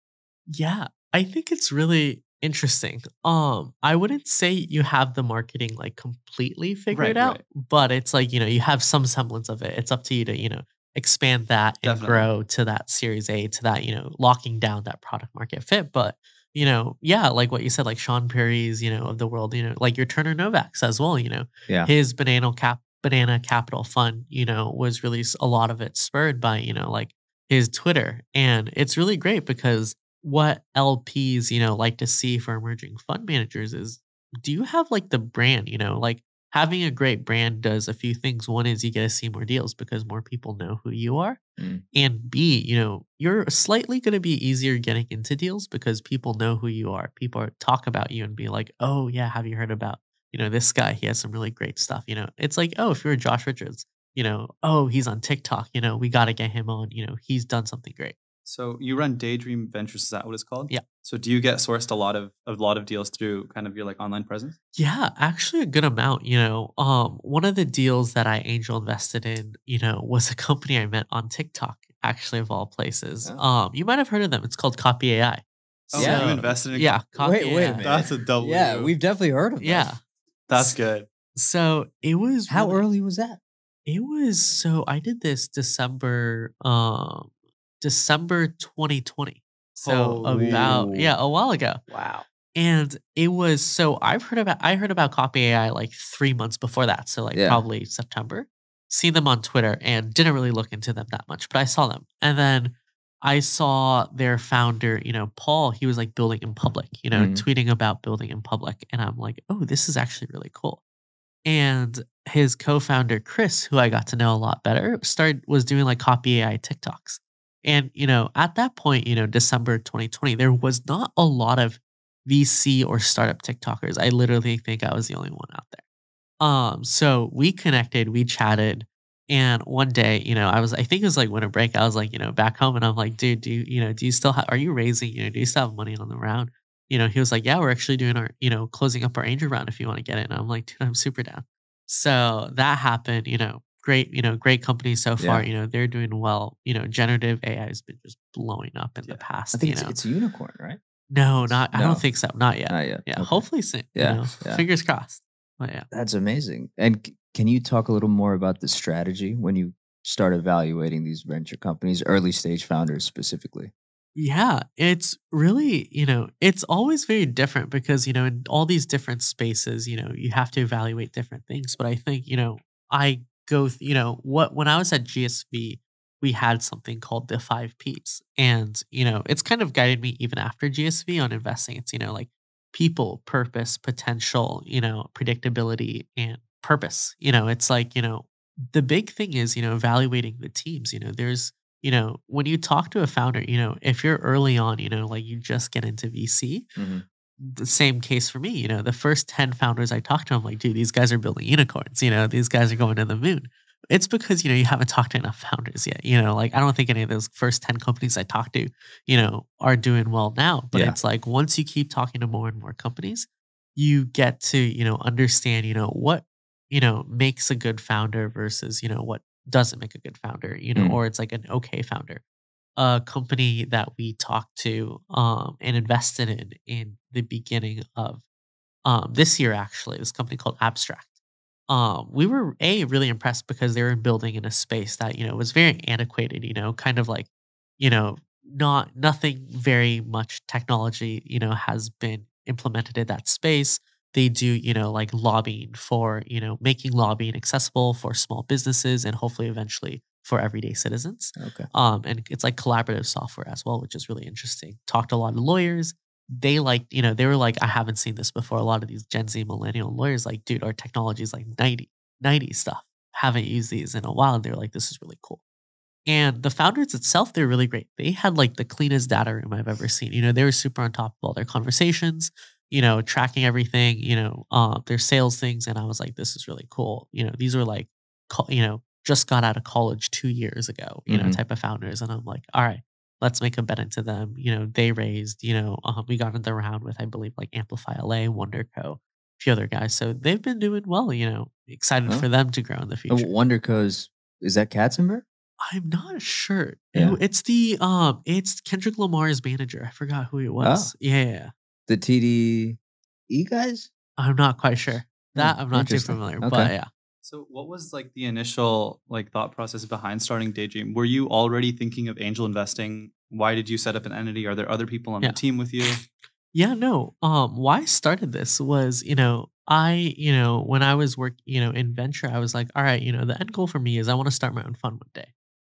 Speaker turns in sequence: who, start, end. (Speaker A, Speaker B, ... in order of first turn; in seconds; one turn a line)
Speaker A: 0.5-41.4
Speaker B: 6.9-7.4
Speaker B: 11.8-12.3
Speaker C: 41.6-41.8
Speaker A: 41.9-58.2
Speaker B: 58.5-64.6
Speaker A: 64.8-77.9
Speaker B: 75.9-77.0
Speaker C: 75.9-76.5
Speaker C: 77.2-79.9
Speaker B: 77.8-78.9
Speaker A: 79.6-80.0
Speaker B: 80.5-81.1
Speaker A: 81.3-82.8
Speaker C: 82.5-83.4
Speaker A: 83.9-87.3
Speaker A: 87.8-91.8
Speaker B: 89.8-90.8
Speaker C: 90.4-91.1
Speaker C: 91.9-92.2
Speaker A: 92.6-110.8
Speaker C: 97.3-97.6
Speaker C: 107.1-107.4
Speaker A: 111.5-125.8
Speaker A: 126.4-150.0
Speaker C: 145.2-145.4
Speaker C: 149.5-150.8
Speaker A: 151.1-155.9
Speaker C: 151.5-152.0
Speaker C: 152.7-153.4
Speaker C: 153.9-154.6
Speaker C: 155.9-163.7
Speaker A: 164.2-196.7
Speaker C: 196.8-197.0
Speaker A: 197.4-222.2
Speaker A: 222.8-228.2
Speaker A: 228.8-231.1
Speaker A: 231.7-265.4
Speaker C: 251.4-251.7
Speaker A: 266.1-293.3
Speaker C: 281.1-281.4
Speaker C: 293.1-295.2
Speaker A: 295.6-301.5
Speaker C: 300.6-300.9
Speaker C: 301.9-303.9
Speaker A: 304.2-306.9
Speaker C: 305.3-306.7
Speaker B: 307.2-316.0
Speaker A: 316.5-325.3